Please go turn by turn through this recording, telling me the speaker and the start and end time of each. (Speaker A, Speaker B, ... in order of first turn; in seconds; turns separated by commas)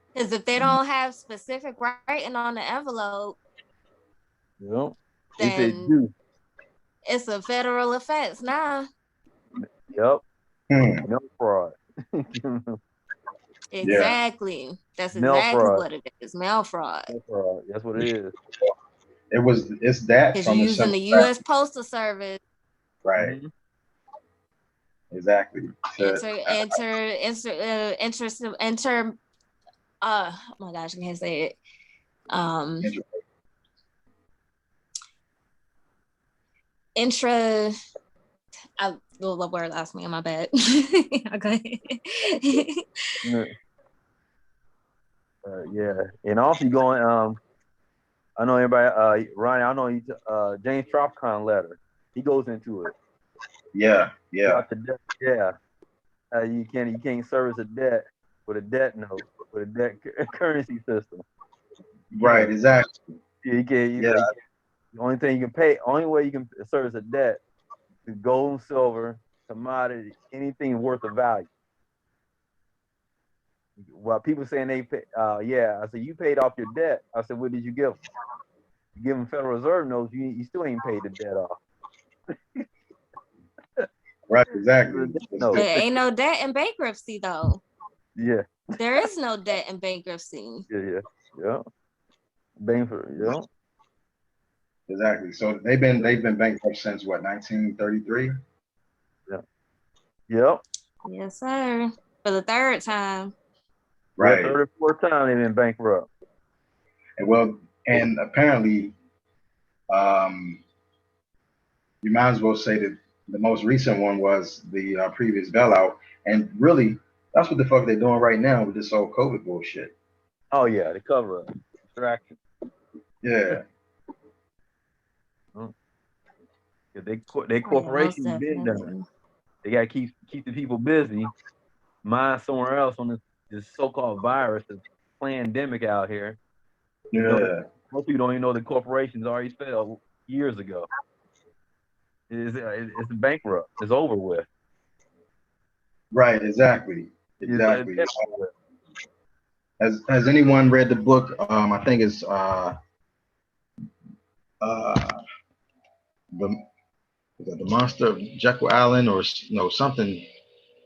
Speaker A: 0.1-3.4, Speaker B: 4.6-6.1, Speaker A: 5.4-5.9, Speaker A: 7.1-8.9, Speaker B: 9.6-10.2, Speaker C: 10.7-11.0, Speaker B: 11.0-12.8, Speaker A: 13.7-17.1, Speaker C: 13.8-14.2, Speaker B: 15.1-15.9, Speaker B: 17.1-18.3, Speaker C: 19.3-21.3, Speaker A: 20.3-22.4, Speaker C: 23.1-23.4, Speaker B: 23.2-23.5, Speaker C: 25.1-26.7, Speaker A: 26.0-29.2, Speaker A: 30.0-31.6, Speaker A: 32.3-32.9, Speaker A: 37.0-37.7, Speaker A: 38.8-42.8, Speaker B: 43.2-43.5, Speaker B: 45.5-47.4, Speaker B: 48.4-52.9, Speaker C: 53.8-54.6, Speaker B: 54.5-55.5, Speaker B: 56.3-61.2, Speaker C: 62.1-63.0, Speaker B: 62.2-62.5, Speaker B: 63.4-64.3, Speaker C: 64.0-64.3, Speaker B: 65.0-67.4, Speaker B: 68.1-71.5, Speaker B: 73.8-78.0, Speaker B: 79.0-81.6, Speaker C: 84.3-85.8, Speaker B: 84.8-85.9, Speaker A: 85.5-87.6, Speaker B: 88.2-88.4, Speaker A: 88.8-90.7, Speaker B: 90.7-91.6, Speaker B: 92.6-93.5, Speaker C: 94.9-98.3, Speaker B: 100.3-100.6, Speaker A: 101.1-103.3, Speaker C: 104.2-104.6, Speaker B: 104.2-106.1, Speaker C: 107.2-109.0, Speaker C: 109.9-110.6, Speaker C: 112.0-119.9, Speaker B: 120.5-122.4, Speaker C: 123.2-123.6, Speaker B: 126.9-128.9, Speaker A: 127.7-129.1, Speaker B: 129.6-131.3, Speaker B: 132.0-136.4, Speaker C: 137.1-137.6, Speaker B: 137.2-140.9, Speaker B: 142.3-144.5, Speaker C: 146.1-148.1, Speaker B: 147.5-148.5, Speaker C: 149.8-152.8, Speaker C: 154.6-155.2, Speaker C: 157.4-160.2